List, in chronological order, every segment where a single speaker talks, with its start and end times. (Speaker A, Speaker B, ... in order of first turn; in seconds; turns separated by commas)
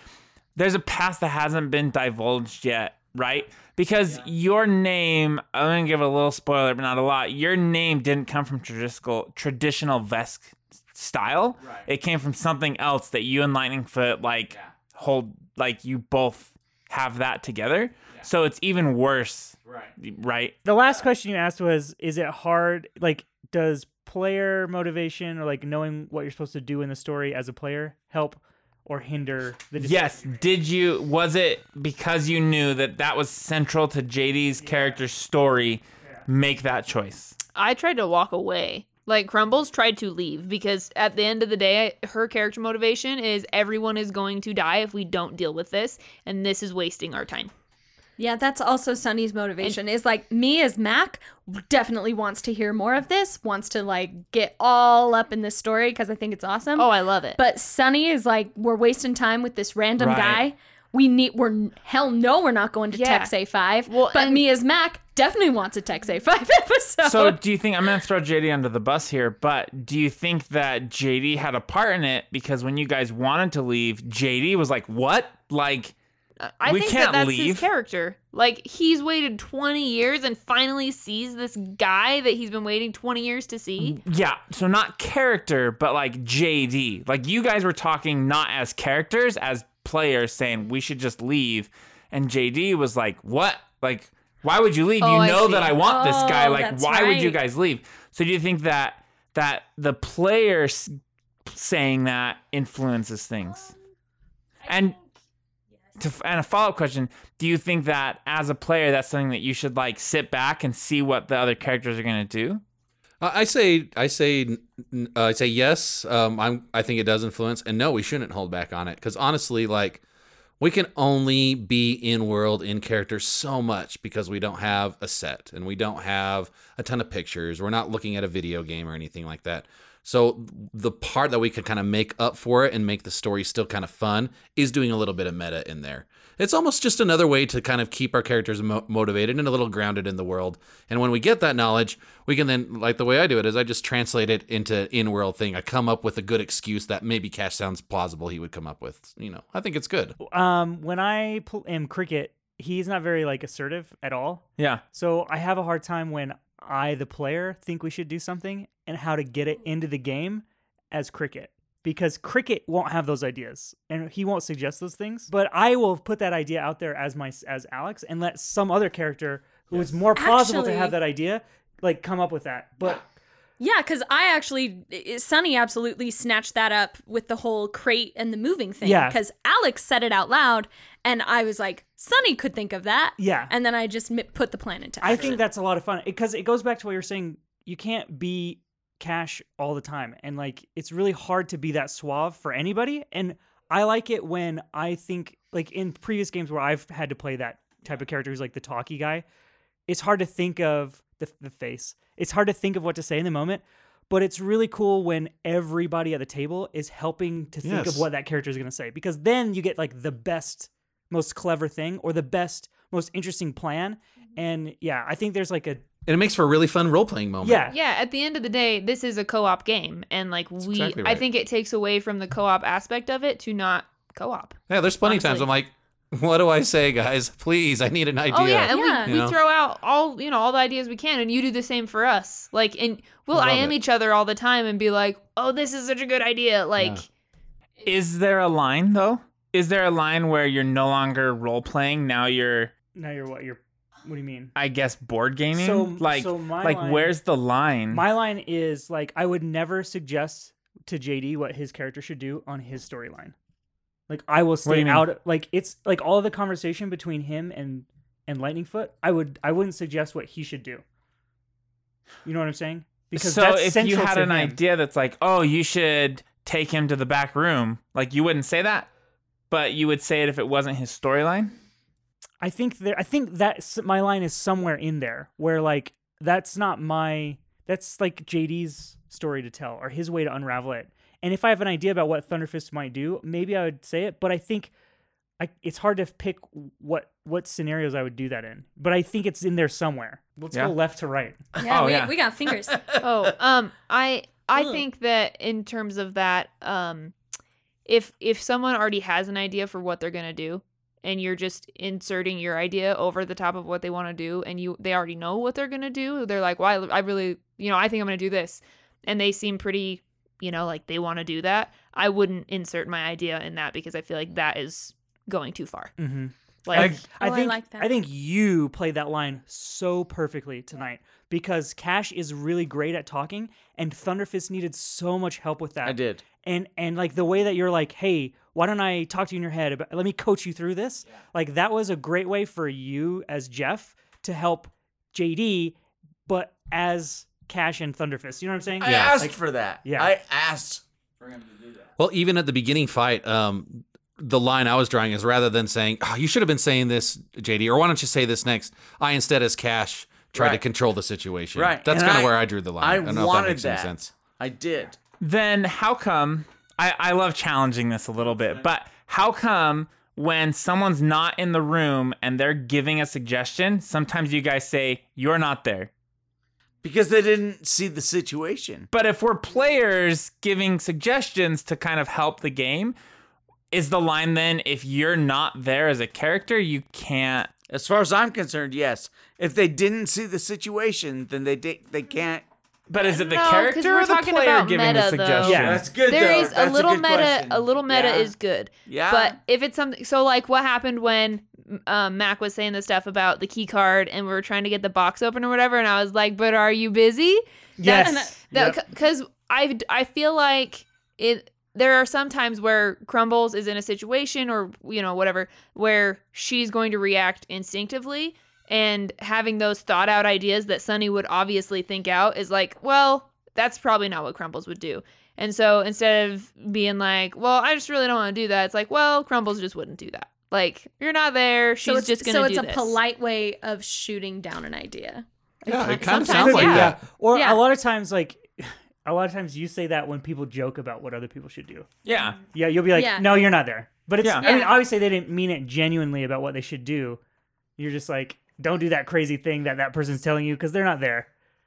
Speaker A: 0.6-20.6, Speaker B: 11.6-11.9, Speaker C: 20.6-30.4, Speaker A: 29.8-37.4, Speaker C: 34.6-35.0, Speaker D: 37.5-47.5, Speaker E: 48.2-67.4, Speaker D: 56.8-57.4, Speaker A: 60.0-60.5, Speaker D: 62.9-63.3, Speaker D: 63.9-64.5, Speaker A: 67.0-75.9, Speaker D: 76.4-84.0, Speaker A: 76.7-77.7, Speaker A: 83.8-103.7, Speaker D: 95.0-95.8, Speaker E: 95.8-97.4, Speaker A: 104.7-105.0, Speaker A: 106.0-112.6, Speaker F: 113.2-120.0, Speaker F: 120.6-150.2, Speaker C: 150.2-173.0, Speaker E: 170.2-171.0, Speaker E: 173.6-185.4, Speaker C: 178.8-179.2, Speaker C: 183.2-183.5, Speaker C: 185.0-199.2, Speaker C: 199.9-215.8, Speaker F: 207.6-208.1, Speaker F: 216.1-217.7, Speaker C: 217.4-217.8, Speaker D: 217.7-225.5, Speaker F: 220.6-221.2, Speaker F: 224.7-229.4, Speaker D: 228.3-237.1, Speaker E: 228.7-229.2, Speaker F: 233.3-233.8, Speaker F: 236.8-237.0, Speaker A: 237.8-242.7, Speaker C: 243.0-244.5, Speaker A: 244.6-248.0, Speaker C: 245.5-247.2, Speaker C: 247.9-253.3, Speaker C: 254.1-260.8, Speaker A: 254.7-255.1, Speaker C: 262.2-264.6, Speaker A: 263.1-268.9, Speaker A: 269.5-271.5, Speaker C: 272.4-284.7, Speaker C: 285.4-291.4, Speaker E: 291.6-292.8, Speaker A: 291.6-292.2, Speaker B: 292.5-293.0, Speaker D: 293.0-297.2, Speaker E: 294.6-294.8, Speaker D: 297.9-315.9, Speaker C: 316.0-340.1, Speaker D: 316.6-317.0, Speaker E: 316.7-317.9, Speaker B: 325.8-326.2, Speaker B: 338.8-341.9, Speaker F: 338.8-339.2, Speaker F: 342.0-354.1, Speaker B: 350.4-350.6, Speaker B: 351.6-355.0, Speaker A: 355.2-365.9, Speaker B: 358.3-358.7, Speaker B: 366.8-368.9, Speaker A: 368.9-372.9, Speaker A: 373.7-377.5, Speaker B: 377.7-382.4, Speaker A: 382.9-385.9, Speaker D: 383.0-397.4, Speaker C: 385.4-385.8, Speaker B: 385.6-388.3, Speaker B: 388.9-389.4, Speaker C: 397.8-398.8, Speaker E: 397.8-398.5, Speaker D: 397.9-423.0, Speaker E: 421.8-427.6, Speaker F: 425.7-427.0, Speaker D: 426.1-426.7, Speaker C: 426.2-431.9, Speaker A: 432.1-432.4, Speaker C: 432.5-437.2, Speaker E: 432.9-433.5, Speaker E: 434.4-434.8, Speaker C: 437.8-441.3